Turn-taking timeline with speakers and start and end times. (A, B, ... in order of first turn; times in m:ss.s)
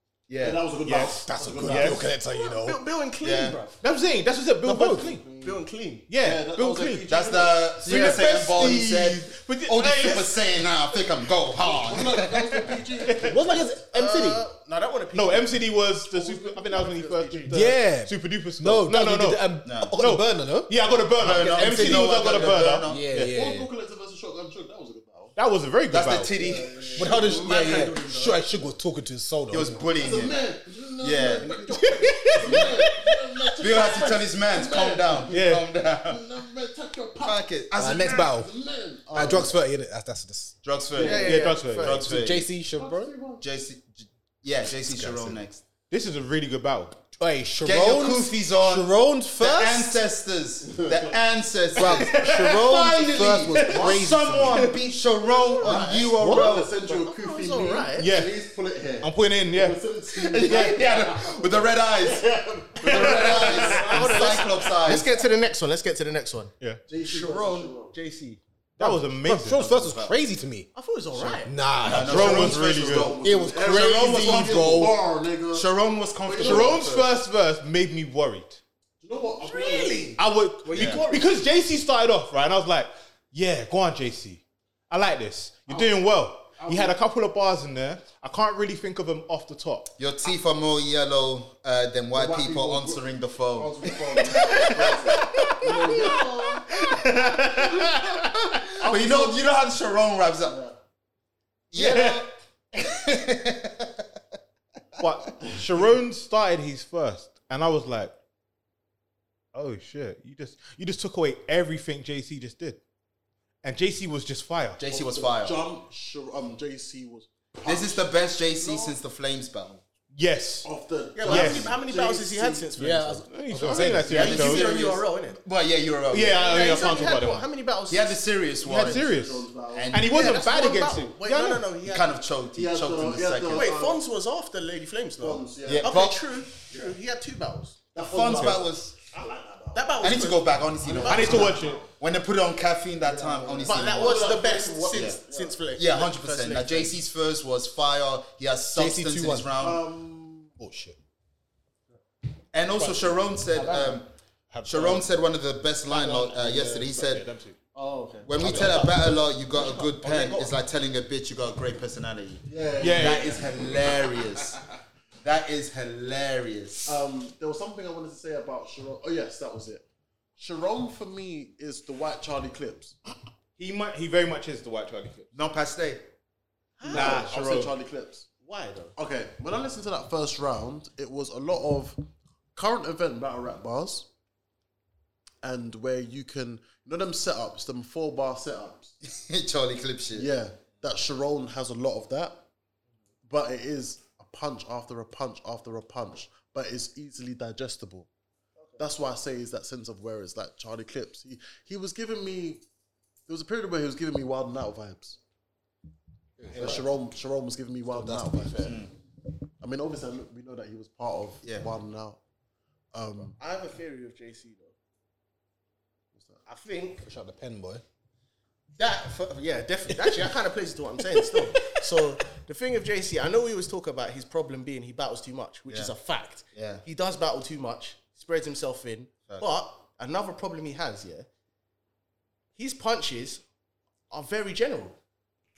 0:00.3-0:00.7 A
0:00.4-0:02.1 B
0:00.8-0:02.1 C
0:01.1-0:02.8 D
0:02.2-0:03.8 E
0:03.2-0:03.6 A
0:03.8-0:05.2 C
0:04.6-0:05.2 D
0:05.1-0:05.6 B
0:05.4-0:06.0 E
0:06.1-0:10.6 C
0:06.2-0:08.3 B
0:07.1-0:12.5 A
0:11.6-0:13.6 B
0:13.0-0:13.4 C
0:13.2-0:14.4 D
0:13.9-0:17.6 E
0:15.1-0:23.3 C
0:17.5-0:23.7 D
0:19.6-0:20.0 A
0:21.2-0:23.1 A
0:23.2-0:25.4 B
0:25.4-0:26.3 C
0:25.9-0:27.1 A
0:26.3-0:27.5 B
0:27.0-0:29.9 D
0:27.0-0:28.4 E
0:29.5-0:30.4 A
0:29.9-0:39.6 B
0:31.0-0:31.8 A
0:32.4-0:32.7 A
0:33.6-0:36.2 A
0:35.3-0:35.7 C
0:37.2-0:38.3 A
0:37.7-0:38.5 D
0:39.1-0:40.6 D
0:40.6-0:42.5 A
0:40.9-0:42.0 E
0:41.0-0:41.4 B
0:41.2-0:42.0 C
0:42.0-0:43.1 D
0:42.7-0:43.4 B
0:43.4-0:45.6 A
0:44.9-0:45.4 D
0:45.9-0:47.0 C
0:47.2-0:50.0 D
0:47.6-0:56.7 A
0:50.6-0:51.2 B
0:51.7-0:54.7 D
0:53.6-0:54.5 B
0:55.6-1:04.6 B
0:56.3-0:58.1 E
0:58.0-0:58.4 C
0:59.0-0:59.8 C
1:00.2-1:05.1 A
1:00.4-1:00.7 C
1:02.9-1:03.4 C
1:03.3-1:08.4 E
1:06.9-1:07.9 B
1:08.8-1:09.9 C
1:08.8-1:10.7 D
1:09.7-1:10.1 A
1:10.7-1:11.6 E
1:11.4-1:12.5 D
1:11.8-1:15.0 A
1:12.0-1:13.1 C
1:12.0-1:15.7 B
1:13.2-1:14.9 D
1:15.5-1:17.1 A
1:16.2-1:16.8 B
1:16.4-1:18.6 C
1:19.0-1:20.2 B
1:19.4-1:21.3 E
1:20.2-1:29.9 C
1:20.7-1:21.0 A
1:26.6-1:27.0 B
1:30.0-1:36.2 A
1:32.1-1:36.9 B
1:34.4-1:39.3 C
1:38.7-1:40.6 A
1:38.8-1:39.3 B
1:40.4-1:40.8 B
1:41.7-1:44.0 A
1:41.8-1:42.2 C
1:45.0-1:48.1 C
1:49.5-1:52.8 C
1:53.6-1:54.8 C
1:54.8-1:55.6 A
1:54.9-1:59.0 B
1:57.6-1:59.8 A
2:00.1-2:00.7 C
2:00.6-2:02.7 B
2:01.2-2:03.3 E
2:01.3-2:01.7 C
2:01.3-2:01.7 A
2:02.8-2:04.4 D
2:03.3-2:04.7 C
2:04.1-2:07.1 A
2:04.2-2:05.4 E
2:06.1-2:07.4 C
2:06.4-2:08.2 E
2:07.9-2:09.1 A
2:08.6-2:11.6 C
2:08.9-2:10.1 B
2:09.7-2:10.4 A
2:10.1-2:12.2 E
2:11.8-2:13.7 A
2:12.5-2:14.0 B
2:13.5-2:17.8 E
2:15.2-2:15.9 B
2:15.6-2:16.4 A
2:17.9-2:20.2 B
2:17.9-2:19.0 A
2:18.3-2:18.6 C
2:19.7-2:21.2 E
2:20.0-2:24.4 A
2:20.8-2:21.9 B
2:21.0-2:21.8 C
2:23.0-2:25.6 B
2:23.6-2:27.0 E
2:24.9-2:25.2 A
2:25.7-2:29.8 A
2:28.7-2:29.5 D
2:29.6-2:30.5 B
2:30.6-2:31.0 D
2:32.5-2:34.1 A
2:34.5-2:35.0 C
2:34.6-2:37.3 A
2:35.9-2:37.6 C
2:37.7-2:38.6 B
2:37.8-2:39.0 E
2:38.2-2:44.6 A
2:39.5-2:40.5 E
2:42.4-2:44.5 B
2:42.8-2:43.4 C
2:45.2-2:47.0 A
2:46.8-2:49.8 B
2:50.4-2:53.0 B
2:53.6-2:55.3 C
2:55.3-2:56.0 A
2:56.8-2:57.3 E
2:56.8-2:57.7 C
2:56.8-2:58.3 B
2:58.4-2:58.9 E
2:59.0-3:02.0 B
3:02.5-3:04.1 B
3:05.4-3:08.9 B
3:09.0-3:10.3 A
3:10.1-3:12.4 B
3:13.2-3:18.1 B
3:18.8-3:22.6 B
3:23.3-3:25.2 B
3:26.4-3:26.8 D
3:26.5-3:28.8 B
3:27.9-3:28.8 D
3:28.6-3:28.9 A
3:29.6-3:32.2 B
3:32.9-3:33.4 B
3:33.4-3:34.7 E
3:36.1-3:36.4 B
3:36.4-3:37.0 E
3:37.0-3:37.8 D
3:38.8-3:51.3 E
3:46.5-3:46.8 A
3:52.6-3:53.4 E
3:54.1-3:55.0 E